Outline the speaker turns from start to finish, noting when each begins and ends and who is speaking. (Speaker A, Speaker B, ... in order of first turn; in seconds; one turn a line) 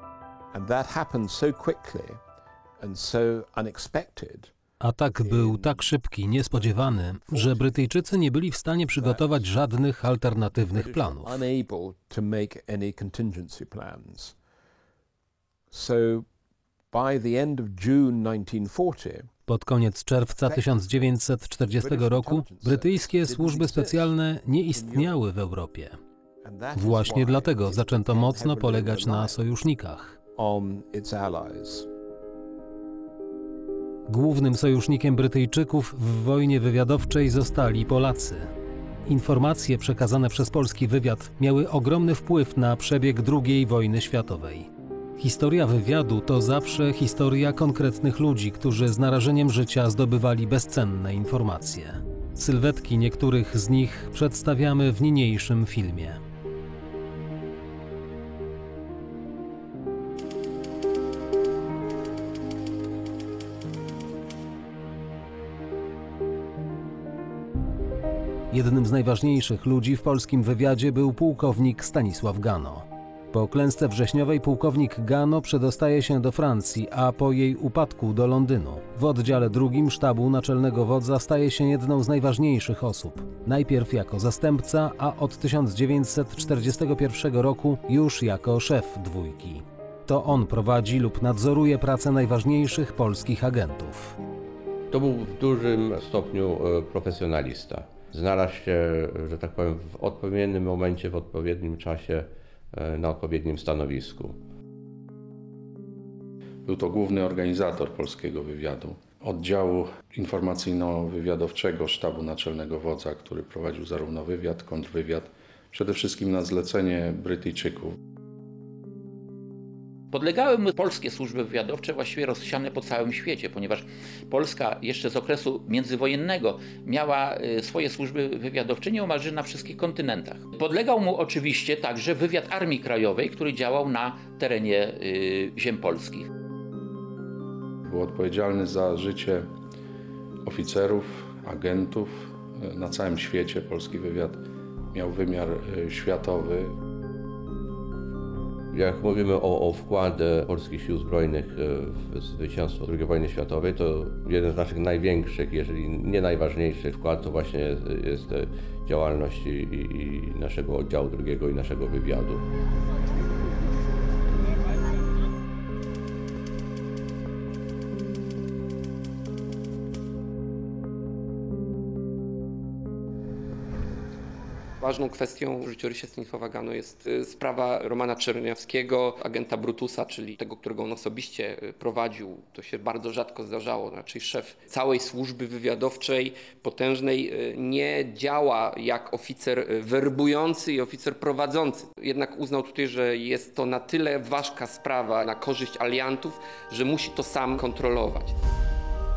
Speaker A: 0.5-2.2
Speaker A: 2.8-4.5
Speaker B: 4.8-11.4
Speaker A: 5.0-8.2
Speaker A: 8.9-9.5
Speaker A: 10.0-14.3
Speaker A: 15.7-16.3
Speaker A: 16.9-19.3
Speaker B: 19.5-25.9
Speaker A: 20.3-24.1
Speaker A: 24.7-25.2
Speaker A: 26.4-29.4
Speaker B: 26.8-30.2
Speaker A: 30.3-31.9
Speaker B: 34.1-38.5
Speaker B: 39.1-56.2
Speaker B: 68.5-94.2
Speaker C: 94.9-104.4
Speaker D: 106.7-118.0
Speaker E: 120.1-136.3
Speaker D: 137.8-139.5
Speaker D: 140.4-144.4
Speaker D: 144.9-146.8
Speaker C: 148.7-162.4
Speaker F: 174.8-198.3